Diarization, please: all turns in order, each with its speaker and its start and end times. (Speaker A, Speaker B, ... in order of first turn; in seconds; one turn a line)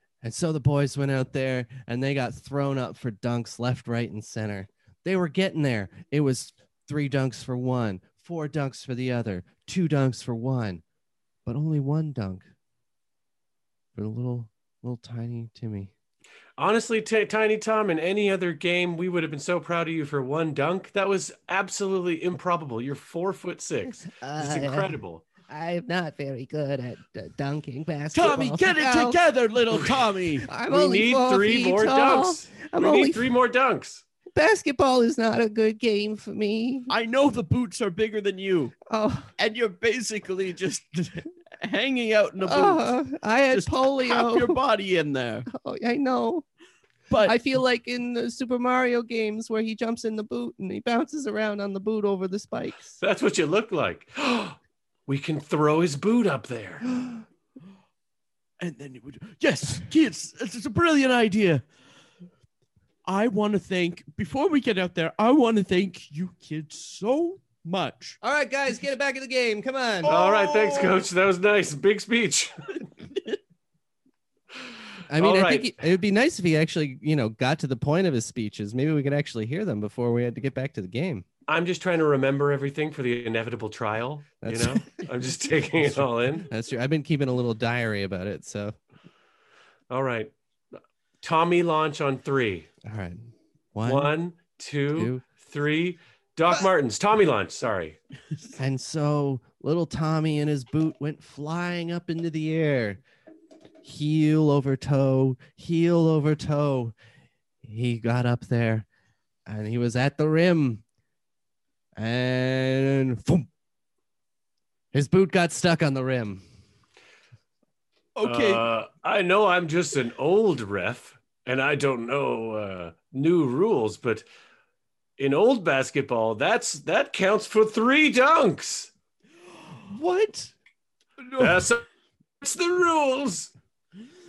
Speaker A: 0.2-10.8
Speaker A: 11.4-12.4
Speaker A: 13.9-15.9
Speaker B: 16.6-25.2
Speaker A: 23.9-24.9
Speaker A: 25.5-29.2
Speaker C: 28.1-30.5
Speaker B: 29.8-30.0
Speaker A: 30.5-33.3
Speaker B: 30.7-34.0
Speaker A: 34.3-36.9
Speaker C: 36.9-38.8
Speaker A: 38.9-39.3
Speaker C: 39.4-43.0
Speaker A: 42.4-44.6
Speaker C: 43.5-45.5
Speaker A: 45.5-46.4
Speaker C: 47.1-47.4
Speaker A: 47.2-53.0
Speaker B: 53.0-56.9
Speaker C: 58.6-61.6
Speaker C: 63.0-68.2
Speaker A: 68.2-70.1
Speaker C: 70.0-71.0
Speaker B: 70.0-72.6
Speaker A: 75.1-81.2
Speaker B: 75.2-75.7
Speaker B: 81.5-86.5
Speaker A: 84.4-85.0
Speaker A: 85.9-88.7
Speaker B: 89.9-90.3
Speaker B: 91.2-92.7
Speaker A: 92.8-93.2
Speaker A: 93.7-94.1
Speaker B: 93.8-98.0
Speaker A: 94.9-95.2
Speaker A: 98.6-103.0
Speaker A: 103.8-106.9
Speaker A: 107.6-108.8
Speaker A: 109.5-110.8
Speaker A: 112.0-113.5
Speaker A: 114.9-116.4
Speaker C: 118.2-118.7
Speaker B: 118.2-124.2
Speaker B: 125.2-128.9
Speaker A: 129.9-130.5
Speaker C: 131.2-131.7
Speaker B: 131.4-131.8
Speaker B: 132.4-133.5